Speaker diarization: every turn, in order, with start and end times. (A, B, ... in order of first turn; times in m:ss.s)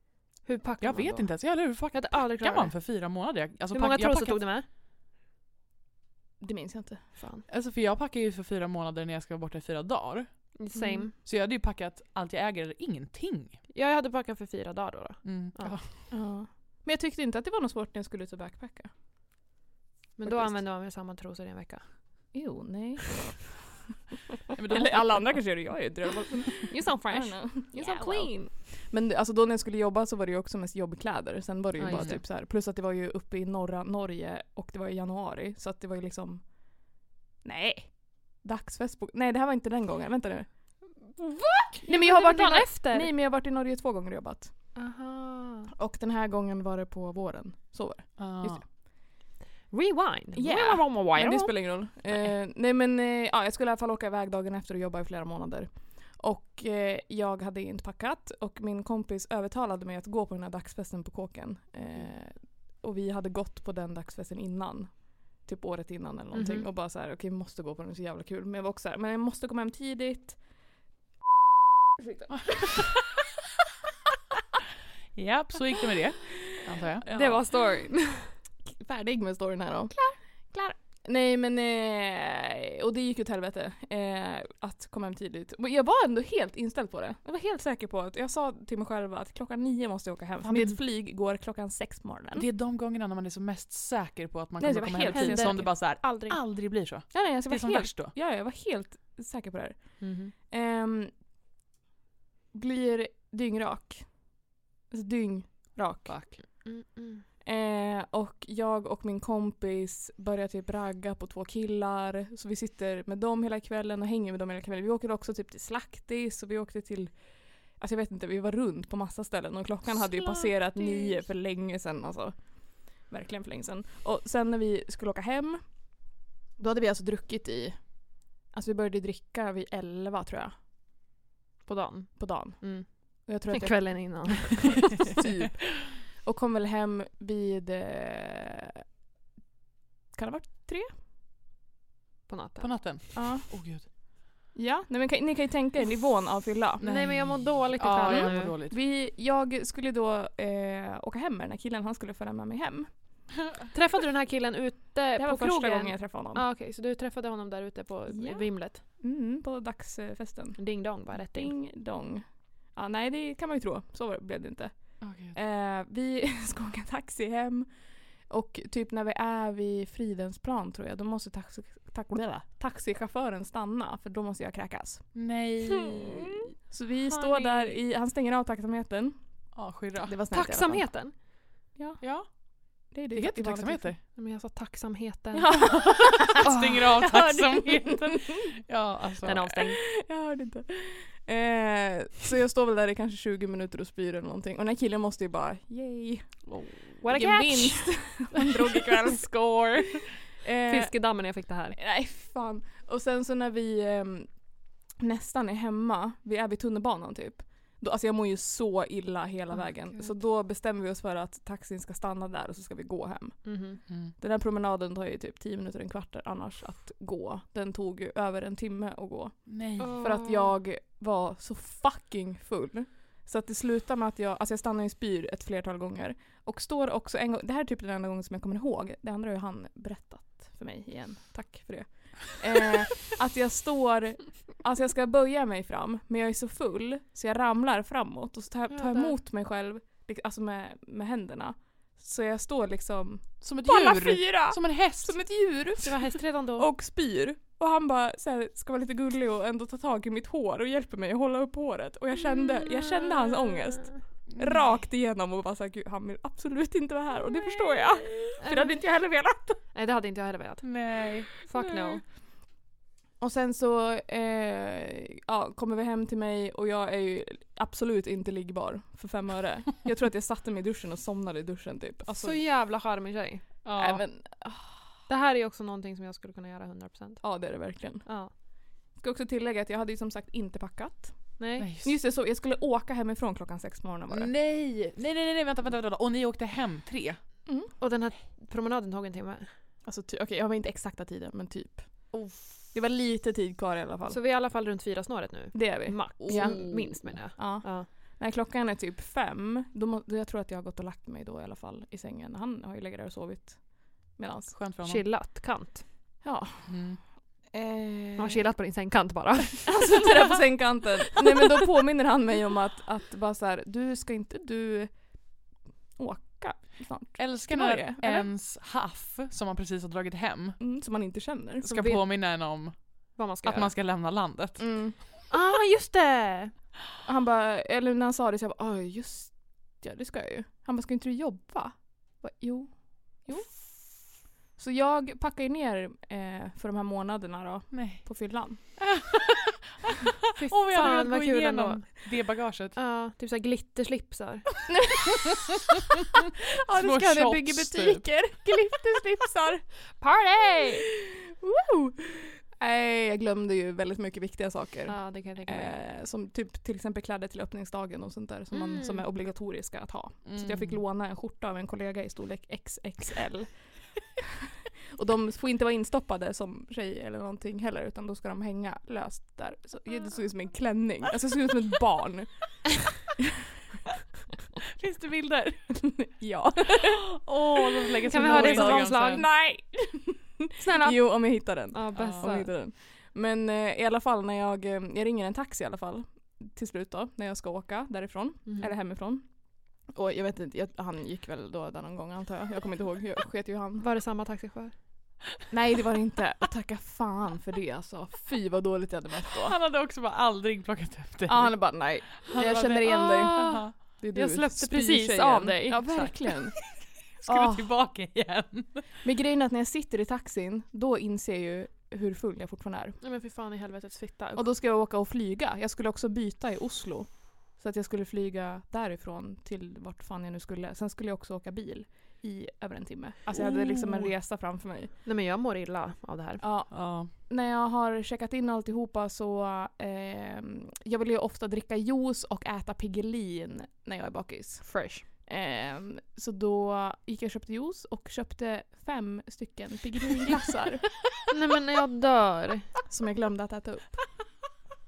0:00.4-0:03.1 A
0:00.8-0:04.5 B
0:03.7-0:04.7 A
0:06.4-0:07.1 C
0:07.2-0:07.4 A
0:07.5-0:13.6 B
0:10.6-0:11.1 A
0:10.8-0:11.1 C
0:13.7-0:15.8 A
0:15.2-0:16.1 B
0:16.1-0:18.9 C
0:20.2-0:21.8 A
0:20.2-0:20.6 C
0:22.3-0:23.6 C
0:24.6-0:25.4 B
0:24.7-0:36.9 C
0:26.7-0:28.5 A
0:31.8-0:32.2 A
0:31.8-0:32.2 B
0:37.4-0:40.5 C
0:41.2-0:43.1 A
0:41.8-0:44.5 C
0:44.8-0:45.7 A
0:45.8-0:48.6 C
0:48.2-0:48.7 B
0:49.7-0:51.8 A
0:50.4-1:10.5 C
1:06.3-1:06.7 A
1:12.0-1:12.8 C
1:12.3-1:12.8 B
1:15.1-1:17.0 B
1:17.0-1:17.7 C
1:17.1-1:18.4 A
1:18.6-1:20.0 C
1:19.9-1:20.2 A
1:20.6-1:32.5 C
1:30.4-1:30.8 B
1:32.3-1:38.1 B
1:34.6-1:35.7 C
1:35.1-1:36.4 A
1:37.1-1:41.2 C
1:40.0-1:40.3 A
1:42.5-1:46.3 C
1:46.1-1:46.4 B
1:46.3-1:47.2 A
1:47.4-2:06.0 C
2:00.0-2:01.2 A
2:06.6-2:10.6 C
2:11.6-2:15.1 A
2:12.2-2:18.6 C
2:20.1-2:20.9 C
2:22.3-2:22.9 A
2:22.6-2:23.9 B
2:23.2-2:23.5 C
2:24.5-2:26.8 C
2:26.8-2:28.8 B
2:26.8-2:28.6 A
2:28.0-2:33.2 C
2:33.7-2:38.8 A
2:35.2-2:36.4 C
2:38.1-2:55.2 C
2:40.6-2:41.6 A
2:45.0-2:45.4 B
2:55.2-2:56.4 B
2:56.7-3:01.2 C
2:57.2-2:57.7 A
2:59.5-3:00.2 B
3:00.3-3:01.3 A
3:01.8-3:04.0 C
3:02.0-3:04.0 B
3:04.1-3:05.9 A
3:05.3-3:08.4 C
3:05.8-3:09.5 B
3:06.4-3:06.8 A
3:09.2-3:09.8 A
3:09.8-3:21.0 C
3:17.0-3:20.0 A
3:20.7-3:21.8 A
3:21.8-4:19.6 C
3:29.6-3:30.1 A
3:33.4-3:33.8 A
3:39.5-3:40.0 B
3:39.8-3:40.6 A
3:58.7-3:59.2 A
4:03.4-4:05.5 B
4:05.8-4:06.7 A
4:13.0-4:14.0 A
4:14.3-4:14.7 B
4:18.4-4:18.8 A
4:19.7-4:20.8 A
4:20.6-4:21.3 B
4:21.3-4:22.0 A
4:21.6-4:22.0 C
4:23.2-4:32.4 C
4:32.1-4:33.6 A
4:33.6-4:34.0 B
4:33.7-4:34.9 C
4:35.1-4:37.4 A
4:37.2-4:44.3 C
4:38.0-4:38.3 A
4:41.4-4:41.7 A
4:41.6-4:42.0 B
4:44.1-4:47.2 B
4:47.5-4:47.7 C
4:47.8-4:49.5 A
4:49.8-4:54.2 C
4:52.1-4:52.6 B
4:54.1-4:57.9 A
4:55.5-5:04.5 C
4:56.2-4:56.9 B
5:04.5-5:05.1 B
5:04.8-5:05.9 A
5:06.2-5:08.4 C
5:06.7-5:07.0 B
5:08.2-5:10.1 A
5:09.7-5:15.4 C
5:16.0-5:18.2 C
5:17.2-5:20.6 B
5:20.6-5:21.7 C
5:21.6-5:24.9 B
5:21.7-5:22.0 A
5:23.2-5:23.7 A
5:24.6-5:25.0 C
5:25.3-5:26.5 A
5:27.0-5:38.8 C
5:37.7-5:38.1 B
5:38.8-5:39.4 B
5:40.4-5:42.8 B
5:40.4-5:44.7 A
5:44.7-5:45.3 C
5:46.6-5:49.9 C
5:46.7-5:48.1 B
5:50.0-5:50.9 A
5:50.9-6:03.8 C
5:54.9-5:55.8 A
5:58.5-5:59.0 A
6:00.3-6:00.8 B
6:04.9-6:13.0 C
6:14.7-6:15.7 B
6:15.7-6:17.1 C
6:16.9-6:19.3 B
6:18.0-6:33.9 C
6:18.1-6:19.4 A
6:20.6-6:22.5 A
6:22.0-6:22.3 B
6:28.5-6:28.7 A
6:33.8-6:34.8 A
6:35.5-6:39.6 C
6:39.4-6:43.7 B
6:41.3-6:46.6 C
6:42.3-6:46.2 A
6:47.2-6:48.9 B
6:47.2-6:47.7 C
6:49.0-6:53.0 C
6:53.0-6:54.4 A
6:54.4-7:04.9 C
7:03.3-7:04.1 B
7:05.0-7:06.4 A
7:06.4-7:20.9 C
7:06.7-7:07.1 B
7:14.6-7:15.0 A
7:21.3-7:22.7 A
7:22.9-7:24.1 C